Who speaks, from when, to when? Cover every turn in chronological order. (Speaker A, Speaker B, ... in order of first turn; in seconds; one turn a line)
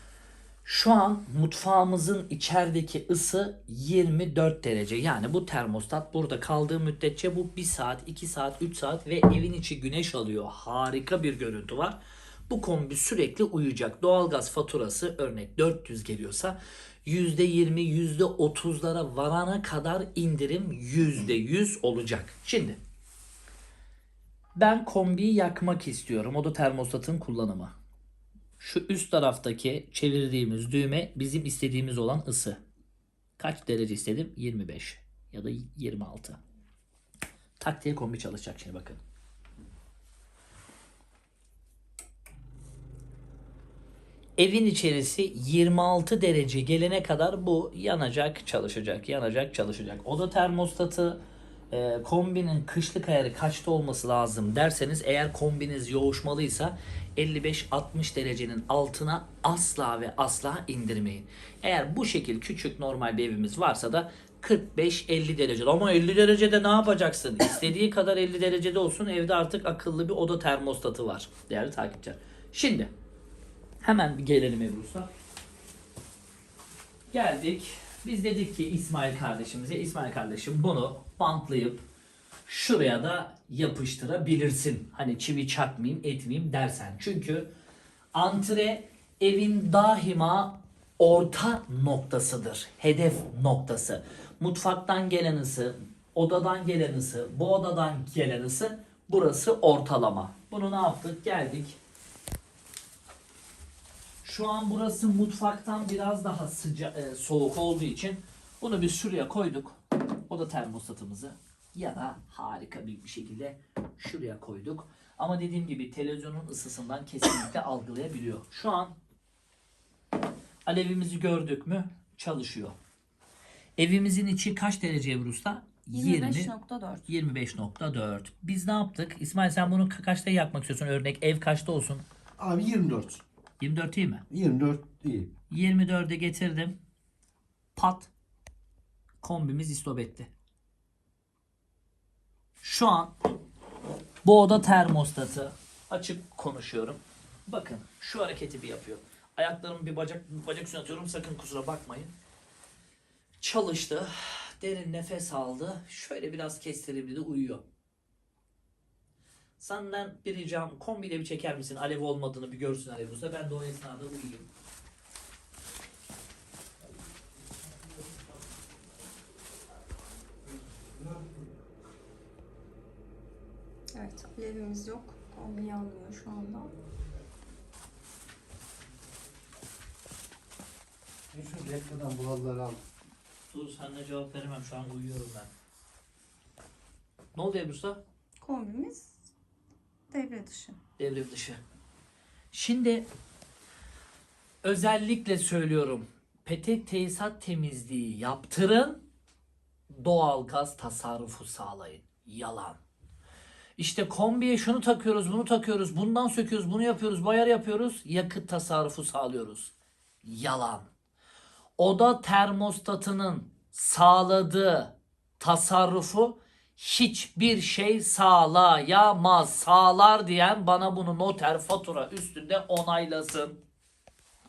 Speaker A: 0.6-12.0
Speaker A: 12.5-22.8
Speaker A: 24.6-27.7
Speaker A: 28.6-32.6
Speaker A: 33.4-36.4
Speaker A: 37.6-39.0
Speaker A: 44.4-51.2
Speaker A: 51.7-72.9
Speaker A: 73.8-75.1
Speaker A: 77.1-81.8
Speaker A: 82.5-87.5
Speaker A: 88.1-101.8
Speaker A: 104.2-119.0
Speaker A: 120.7-122.8
Speaker A: 123.8-126.5
Speaker B: 125.9-127.1
Speaker A: 127.1-132.0
Speaker C: 132.4-133.2
Speaker A: 133.6-134.2
Speaker C: 134.3-135.3
Speaker A: 135.5-136.8
Speaker A: 137.8-138.1
Speaker A: 139.2-140.3
Speaker A: 142.6-143.1
Speaker A: 144.2-152.1
Speaker A: 153.4-157.6
Speaker A: 159.6-164.5
Speaker B: 173.9-176.7
Speaker C: 181.3-182.8
Speaker A: 183.5-185.5
Speaker A: 187.3-188.0
Speaker B: 188.4-189.3
Speaker B: 190.1-190.8
Speaker A: 191.0-191.6
Speaker A: 192.5-193.1
Speaker A: 194.6-199.0
Speaker A: 199.9-202.8
Speaker A: 203.8-209.7
Speaker A: 210.2-210.9
Speaker A: 211.8-223.6